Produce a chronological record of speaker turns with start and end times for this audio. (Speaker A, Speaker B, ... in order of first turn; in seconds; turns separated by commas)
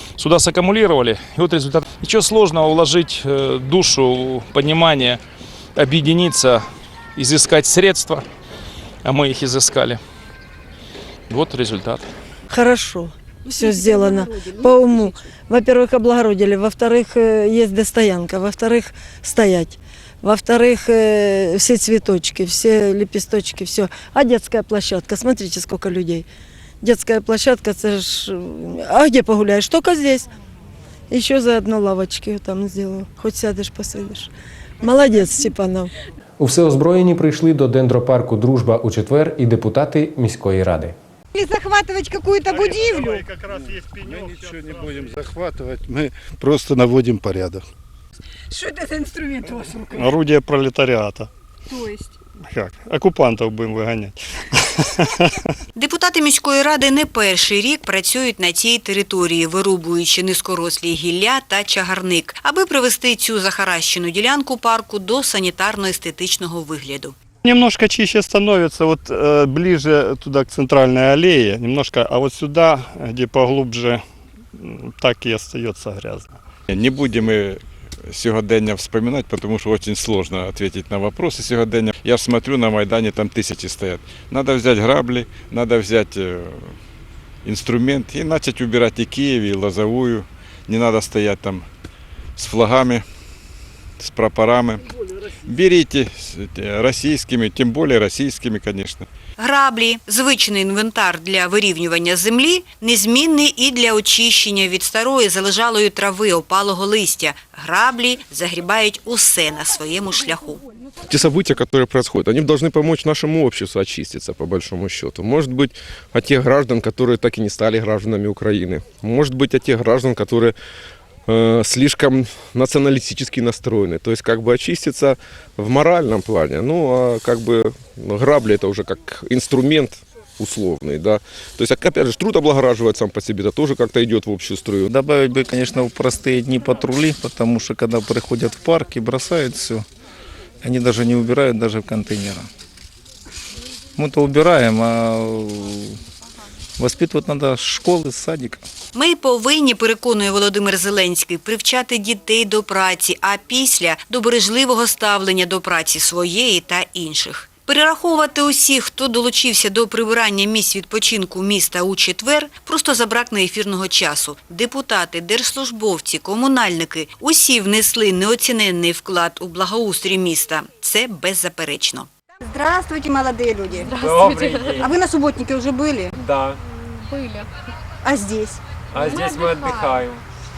Speaker A: 0.2-5.2, Speaker A: 5.8-6.6, Speaker A: 7.2-8.2, Speaker A: 9.0-10.0, Speaker A: 11.3-12.1, Speaker B: 12.5-26.3, Speaker C: 13.4-15.2, Speaker B: 26.8-30.3, Speaker B: 31.1-34.3, Speaker B: 34.8-35.9, Speaker D: 36.4-40.9, Speaker C: 41.3-43.1, Speaker E: 42.5-47.6, Speaker E: 49.9-51.3, Speaker E: 52.5-55.4, Speaker F: 55.8-67.1, Speaker E: 67.4-74.0, Speaker E: 74.5-76.4, Speaker G: 76.7-86.8, Speaker G: 87.4-91.7, Speaker G: 92.4-93.0, Speaker G: 94.0-94.8, Speaker G: 95.5-99.0, Speaker F: 99.4-110.6, Speaker H: 111.1-120.5, Speaker H: 121.3-134.9, Speaker I: 134.9-139.8, Speaker I: 140.6-142.5, Speaker I: 143.9-146.0, Speaker I: 146.8-148.6, Speaker F: 148.9-172.1, Speaker C: 172.4-173.9, Speaker J: 173.9-175.0, Speaker C: 174.8-176.1, Speaker J: 176.2-176.6, Speaker C: 178.0-178.6, Speaker J: 178.9-180.2